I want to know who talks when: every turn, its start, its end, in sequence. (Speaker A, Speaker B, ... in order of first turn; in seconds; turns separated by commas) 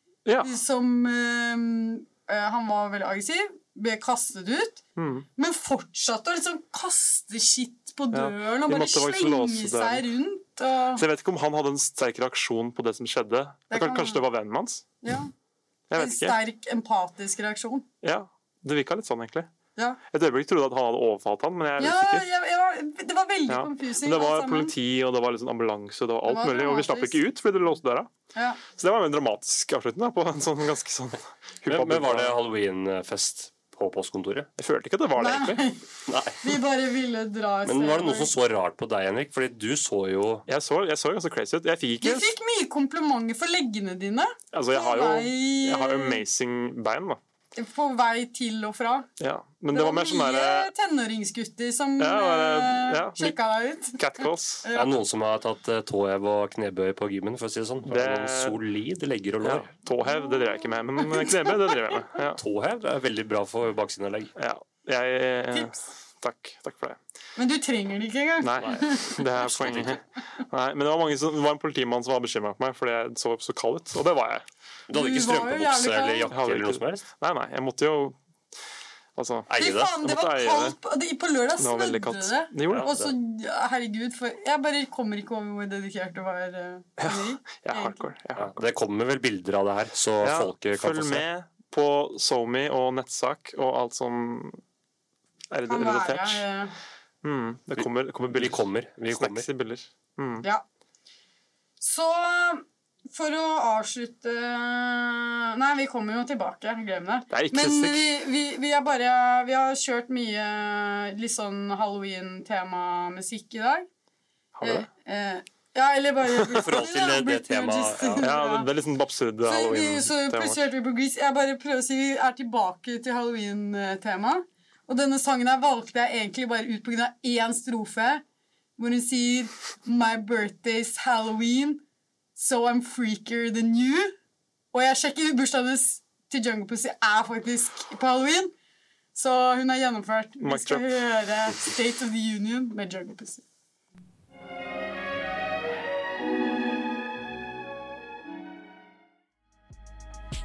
Speaker A: 0.2-0.5, Speaker B: 0.4-4.8, Speaker A: 5.0-5.2, Speaker B: 5.3-11.0, Speaker A: 8.1-10.0, Speaker A: 10.9-14.8, Speaker B: 13.7-14.2, Speaker B: 15.0-15.3, Speaker A: 15.9-16.4, Speaker B: 15.9-17.9, Speaker A: 18.0-19.5, Speaker A: 20.1-22.2, Speaker B: 21.8-24.7, Speaker A: 23.5-28.1, Speaker B: 26.2-27.2, Speaker B: 28.3-28.6, Speaker A: 28.8-32.4, Speaker C: 31.6-34.5, Speaker A: 34.6-35.6, Speaker B: 35.2-35.9, Speaker C: 36.1-36.5, Speaker B: 36.4-38.3, Speaker C: 37.6-40.5, Speaker A: 40.5-42.3, Speaker B: 42.0-46.2, Speaker A: 44.5-47.2, Speaker B: 47.5-49.1, Speaker A: 49.2-50.7, Speaker B: 49.7-55.0, Speaker A: 52.0-53.3, Speaker A: 54.0-54.6, Speaker C: 54.7-59.7, Speaker A: 57.8-58.6, Speaker A: 59.4-62.4, Speaker B: 60.0-61.9, Speaker C: 62.3-64.3, Speaker A: 64.3-67.0, Speaker B: 67.3-69.3, Speaker A: 68.4-74.4, Speaker C: 68.6-70.0, Speaker C: 74.9-77.0, Speaker B: 74.9-76.3, Speaker A: 76.3-78.2, Speaker A: 79.2-80.8, Speaker C: 79.5-80.0, Speaker B: 79.6-88.1, Speaker A: 81.6-82.9, Speaker C: 82.7-83.1, Speaker A: 87.0-88.6, Speaker C: 88.4-91.2, Speaker A: 90.2-94.6, Speaker A: 95.5-96.4, Speaker B: 95.7-96.7, Speaker A: 97.2-100.5, Speaker C: 97.8-99.5, Speaker B: 101.8-113.8, Speaker A: 107.3-108.2, Speaker A: 114.5-114.9, Speaker B: 114.6-118.7, Speaker C: 116.5-118.3, Speaker A: 118.2-120.7, Speaker B: 119.5-128.2, Speaker B: 128.8-131.8, Speaker B: 132.3-134.2, Speaker B: 134.7-138.5, Speaker B: 139.1-143.4, Speaker A: 140.4-140.9